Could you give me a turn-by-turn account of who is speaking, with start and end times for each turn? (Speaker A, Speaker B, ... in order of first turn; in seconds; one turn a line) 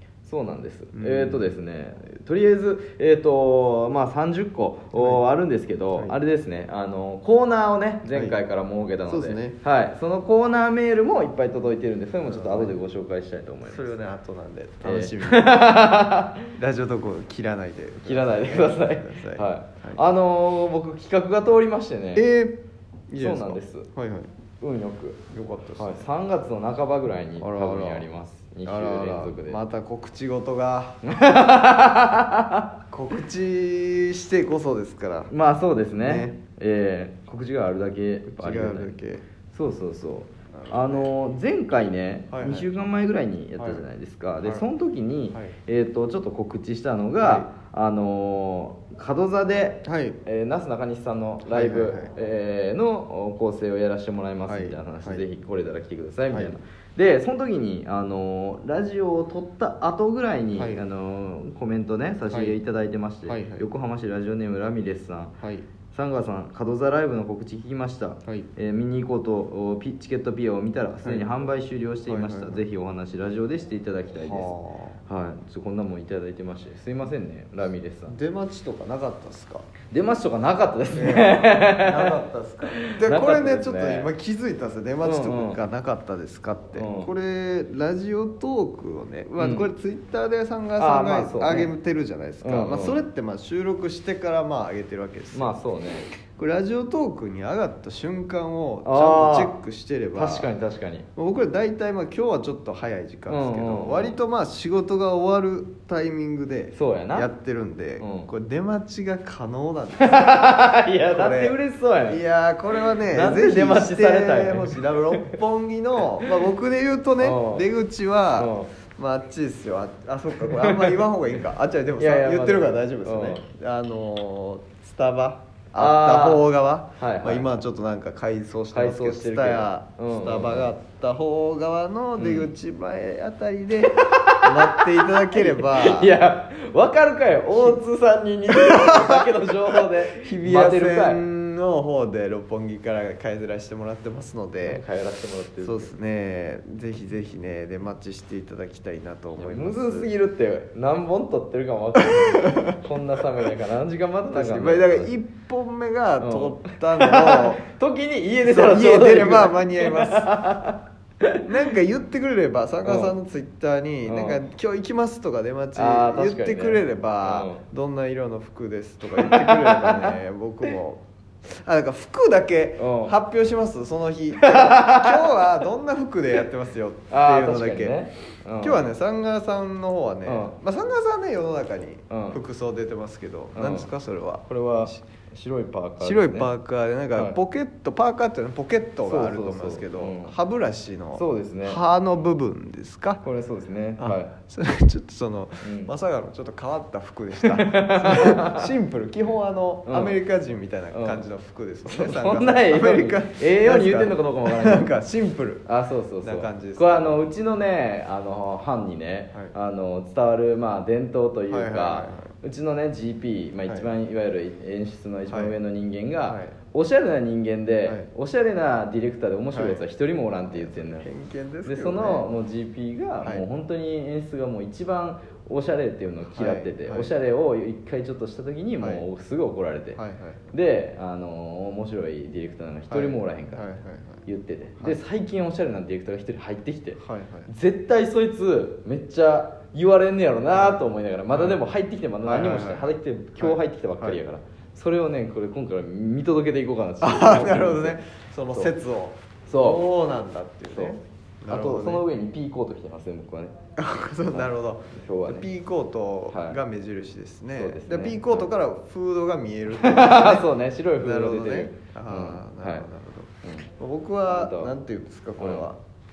Speaker A: 0.2-13.9
Speaker B: 0.9-1.5
Speaker B: 4.9-5.2
Speaker B: 8.1-8.4
Speaker B: 9.1-9.6
Speaker B: 12.2-12.8
Speaker B: 13.6-15.7
Speaker A: 14.8-16.5
Speaker B: 16.5-20.0
Speaker A: 18.0-22.3
Speaker B: 22.1-24.3
Speaker A: 23.2-23.9
Speaker A: 24.6-25.2
Speaker B: 25.3-26.1
Speaker A: 25.8-29.6
Speaker B: 27.4-28.1
Speaker B: 28.6-31.0
Speaker A: 31.1-32.7
Speaker B: 32.9-35.3
Speaker A: 35.3-39.0
Speaker B: 36.0-36.4
Speaker B: 38.2-39.2
Speaker A: 39.5-65.3
Speaker B: 40.5-41.1
Speaker B: 42.3-42.7
Speaker B: 43.6-43.9
Speaker B: 47.2-47.5
Speaker B: 49.8-50.2
Speaker B: 51.4-52.1
Speaker B: 54.5-55.2
Speaker B: 60.5-60.8
Speaker B: 62.3-62.5
Speaker B: 63.2-63.7
Speaker B: 65.4-65.7
Speaker A: 65.9-74.5
Speaker B: 71.0-71.4
Speaker B: 72.0-72.6
Speaker B: 74.1-75.0
Speaker A: 75.1-78.1
Speaker B: 78.1-79.7
Speaker A: 79.9-84.1
Speaker B: 80.9-95.6
Speaker A: 85.0-85.6
Speaker A: 86.7-87.1
Speaker A: 89.4-89.7
Speaker A: 90.8-91.7
Speaker A: 92.4-93.0
Speaker A: 95.3-96.1
Speaker B: 96.3-100.5
Speaker A: 98.8-99.5
Speaker A: 100.1-101.1
Speaker B: 101.2-136.2
Speaker A: 103.3-104.2
Speaker A: 106.7-107.3
Speaker A: 108.0-108.3
Speaker A: 110.0-112.2
Speaker A: 112.8-115.4
Speaker A: 117.2-117.7
Speaker A: 118.4-118.7
Speaker A: 120.4-121.0
Speaker A: 122.0-123.4
Speaker A: 125.8-126.5
Speaker A: 127.0-127.5
Speaker A: 128.7-130.7
Speaker A: 132.2-132.5
Speaker A: 134.1-141.2
Speaker B: 137.5-137.8
Speaker B: 138.5-144.8
Speaker A: 144.6-145.9
Speaker B: 145.6-150.1
Speaker A: 149.3-155.1
Speaker B: 152.0-152.8
Speaker B: 154.3-157.7
Speaker A: 156.2-161.5
Speaker B: 158.4-160.4
Speaker B: 161.4-178.0
Speaker A: 162.8-163.1
Speaker A: 164.0-164.4
Speaker A: 165.7-167.6
Speaker A: 169.1-170.2
Speaker A: 172.8-173.1
Speaker A: 174.4-175.2
Speaker A: 177.1-178.9
Speaker B: 178.6-185.0
Speaker A: 180.2-180.6
Speaker A: 182.1-182.4
Speaker A: 183.5-183.9
Speaker A: 184.5-186.5
Speaker B: 186.0-193.2
Speaker A: 189.0-190.3
Speaker A: 191.2-191.8
Speaker A: 193.2-194.3
Speaker B: 194.0-205.7
Speaker A: 195.6-195.9
Speaker A: 197.4-198.7
Speaker A: 199.8-200.2
Speaker A: 200.9-201.2
Speaker A: 201.9-204.9
Speaker A: 205.7-221.1
Speaker B: 206.2-207.3
Speaker B: 211.5-212.3
Speaker B: 215.3-215.6
Speaker B: 216.2-216.6
Speaker B: 217.8-218.1
Speaker B: 219.5-219.8
Speaker B: 220.5-222.3
Speaker A: 221.6-230.0
Speaker B: 226.3-227.1
Speaker B: 228.8-229.1
Speaker B: 229.9-230.4
Speaker A: 230.5-233.6
Speaker B: 232.9-234.2
Speaker A: 234.2-248.7
Speaker B: 237.0-237.5
Speaker B: 240.5-241.6
Speaker B: 242.2-244.2
Speaker B: 247.0-252.0
Speaker A: 249.5-249.8
Speaker A: 250.7-253.5
Speaker B: 253.8-265.8
Speaker A: 254.3-255.4
Speaker A: 256.3-256.6
Speaker A: 257.5-258.5
Speaker A: 259.8-262.8
Speaker A: 264.3-264.7
Speaker A: 265.4-265.6